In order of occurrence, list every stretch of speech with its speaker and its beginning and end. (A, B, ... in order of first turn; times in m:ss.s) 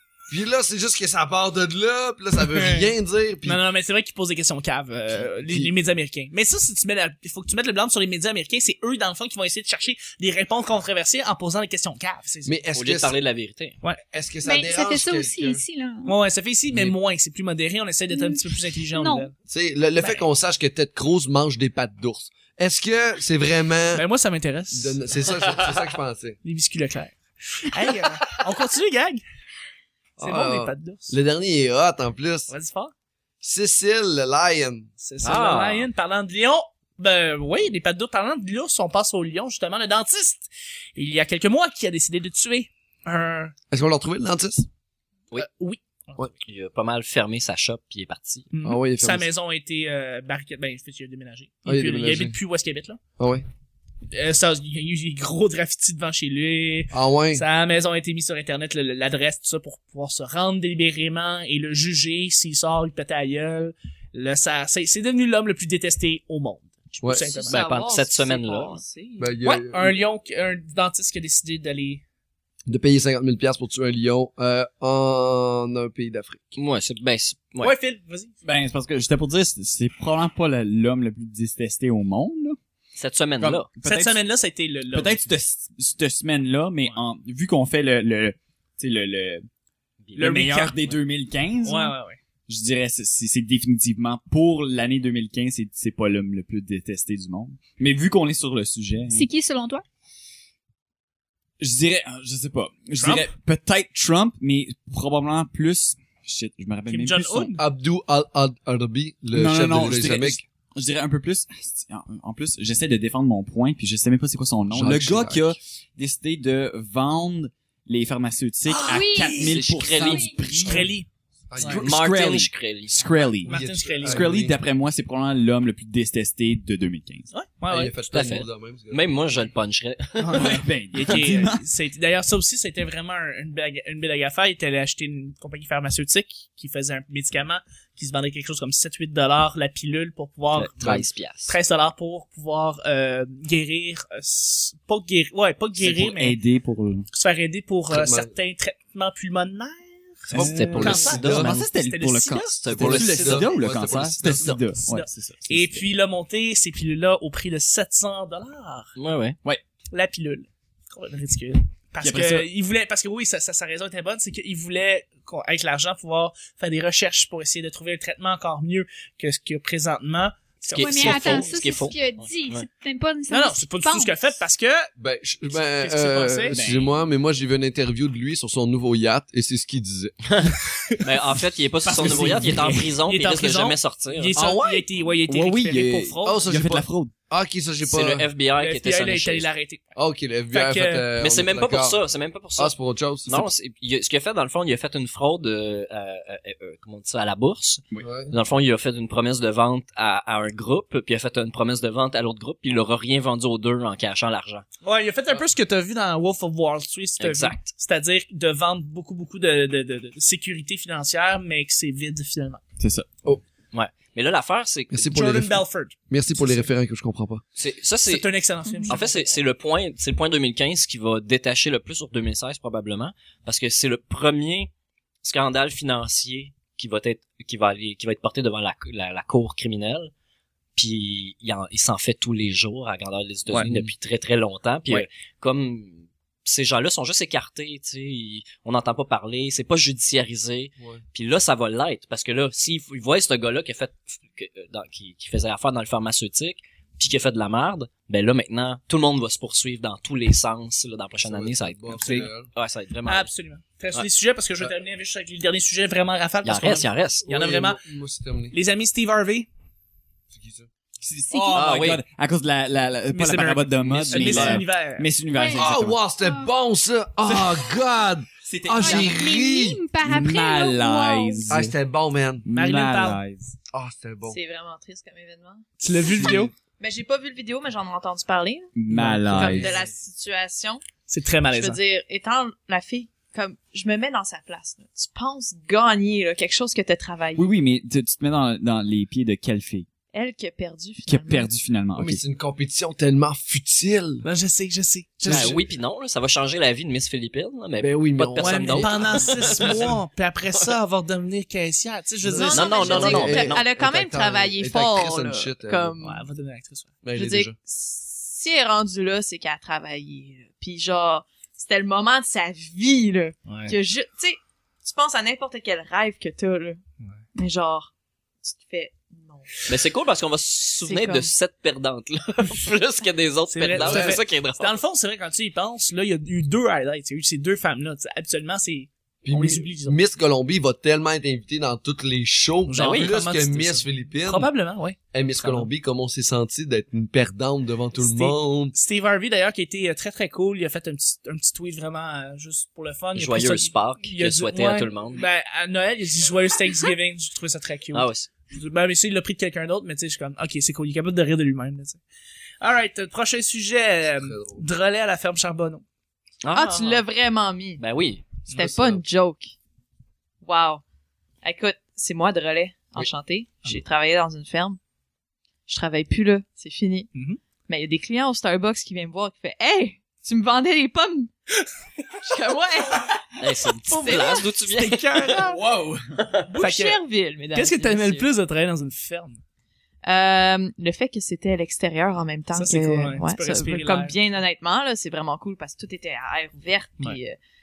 0:00.3-0:03.6 A
0:02.4-0:02.9 B
0:03.4-0:12.6 B
0:05.2-0:05.7 A
0:12.4-0:13.2 A
0:12.7-0:13.8 C
0:14.1-0:15.6 A
0:14.4-0:16.1 D
0:16.0-0:19.3 B
0:18.1-0:19.3 D
0:19.5-0:24.0 A
0:23.9-0:25.0 B
0:24.7-0:26.4 A
0:26.4-0:29.2 B
0:30.2-0:32.5 A
0:30.2-0:31.2 B
0:32.5-0:32.9 B
0:33.4-0:34.9 A
0:35.0-0:43.5 B
0:35.2-0:35.9 C
0:43.7-0:44.7 A
0:45.4-0:46.3 B
0:46.4-0:48.5 C
0:48.5-0:53.0 B
0:48.6-0:49.3 A
0:51.6-0:52.4 A
0:53.2-0:53.4 A
0:54.1-1:07.6 B
0:56.9-0:57.4 A
1:07.0-1:07.3 A
1:07.3-1:09.3 E
1:07.5-1:08.8 C
1:09.2-1:10.0 A
1:09.4-1:12.0 B
1:12.6-1:16.5 A
1:16.5-1:17.7 C
1:17.6-1:18.3 B
1:18.4-1:22.6 F
1:23.0-1:23.7 C
1:23.4-1:24.2 F
1:23.8-1:25.3 B
1:24.9-1:29.4 F
1:30.0-1:31.0 C
1:30.2-1:30.8 B
1:30.2-1:31.9 F
1:31.6-1:32.2 B
1:32.5-1:39.3 F
1:39.1-1:39.8 D
1:41.6-1:47.6 F
1:43.0-1:43.3 B
1:46.9-1:47.6 B
1:47.6-1:50.4 A
1:49.3-2:00.9 F
1:54.7-1:55.5 A
1:58.7-1:59.5 B
1:58.8-2:00.4 D
1:59.3-2:00.8 C
2:00.5-2:01.1 B
2:01.5-2:02.0 A
2:01.6-2:01.8 B
2:01.6-2:07.3 F
2:01.8-2:03.2 C
2:03.4-2:04.3 B
2:03.4-2:04.6 A
2:07.3-2:07.9 B
2:07.7-2:09.0 A
2:08.1-2:10.6 C
2:10.2-2:26.4 B
2:10.3-2:11.6 F
2:20.5-2:21.6 C
2:25.8-2:27.0 F
2:27.1-2:32.6 B
2:27.9-2:28.3 A
2:30.3-2:35.8 F
2:30.3-2:31.6 C
2:30.4-2:31.6 A
2:32.6-2:33.6 C
2:32.7-2:34.6 A
2:34.2-2:38.9 B
2:39.0-2:39.4 C
2:39.9-2:51.5 B
2:42.0-2:42.5 F
2:50.7-2:52.7 C
2:50.8-2:54.1 D
2:53.3-2:54.9 B
2:55.0-3:00.3 A
2:55.7-2:56.6 B
2:56.5-2:56.9 F
3:00.2-3:04.4 C
3:00.7-3:01.1 B
3:01.8-3:06.5 B
3:04.4-3:04.9 A
3:05.2-3:07.1 F
3:06.2-3:08.3 A
3:07.8-3:09.5 C
3:08.6-3:09.8 B
3:10.0-3:12.0 A
3:10.5-3:11.1 B
3:11.2-3:24.6 C
3:12.6-3:13.5 A
3:18.0-3:18.3 A
3:24.8-3:32.6 B
3:27.2-3:27.7 C
3:32.8-3:33.1 F
3:33.7-3:35.1 C
3:34.9-3:37.4 A
3:35.1-3:36.6 B
3:37.6-3:38.3 C
3:38.1-3:39.3 B
3:38.7-3:39.0 D
3:38.9-3:44.7 C
3:45.2-3:50.1 C
3:50.8-4:13.3 C
4:11.2-4:12.5 A
4:13.0-4:17.8 B
4:16.4-4:17.2 C
4:17.2-4:18.5 A
4:18.5-4:19.5 B
4:20.3-4:20.7 A
4:21.0-4:26.0 F
4:21.3-4:21.6 D
4:21.5-4:22.0 C
4:23.1-4:25.1 B
4:23.9-4:24.6 C
4:25.3-4:26.5 D
4:25.5-4:29.9 A
4:27.2-4:27.8 F
4:28.4-4:29.2 F
4:28.8-4:31.5 D
4:30.0-4:31.7 F
4:31.5-4:32.4 A
4:32.4-4:33.5 F
4:32.5-4:33.2 B
4:33.7-4:34.4 A
4:34.2-4:35.7 E
4:35.8-4:36.5 B
4:36.2-4:36.5 A
4:36.8-4:38.7 E
4:38.7-4:39.7 F
4:38.9-4:39.7 B
4:39.2-4:40.8 E
4:41.1-4:41.8 B
4:41.5-4:47.5 E
4:47.4-4:49.9 F
4:50.1-4:51.5 E
4:51.0-4:52.2 F
4:51.9-4:54.2 A
4:54.2-4:55.6 B
4:55.2-4:55.6 A
4:55.2-4:59.9 C
4:57.8-4:59.9 A
4:58.4-5:03.2 B
5:02.2-5:06.0 A
5:02.3-5:06.2 E
5:02.5-5:03.7 C
5:06.0-5:06.9 B
5:07.0-5:07.5 A
5:07.1-5:16.8 E
5:13.5-5:13.7 B
5:17.3-5:17.9 E
5:18.4-5:19.5 E
5:19.6-5:24.8 C
5:20.8-5:21.3 E
5:23.5-5:30.0 B
5:23.8-5:24.2 A
5:29.2-5:34.5 A
5:32.7-5:35.7 B
5:32.8-5:33.1 C
5:35.1-5:38.7 A
5:38.0-5:52.0 B
5:43.1-5:45.2 C
5:47.9-5:48.3 C
5:52.6-5:55.8 B
5:54.2-5:54.6 A
5:56.4-5:57.0 C
5:56.5-5:57.8 E
5:57.8-5:58.3 C
5:58.5-5:59.0 A
5:58.5-5:59.5 E
6:00.4-6:00.8 E
6:01.4-6:04.8 E
6:05.7-6:07.1 E
6:07.1-6:07.4 B
6:07.7-6:11.3 E
6:12.2-6:13.3 E
6:13.4-6:15.4 C
6:13.9-6:15.6 B
6:13.9-6:14.4 E
6:15.5-6:16.2 F
6:16.5-6:17.0 B
6:16.5-6:18.3 E
6:17.5-6:19.4 B
6:20.0-6:27.4 E
6:22.5-6:24.2 B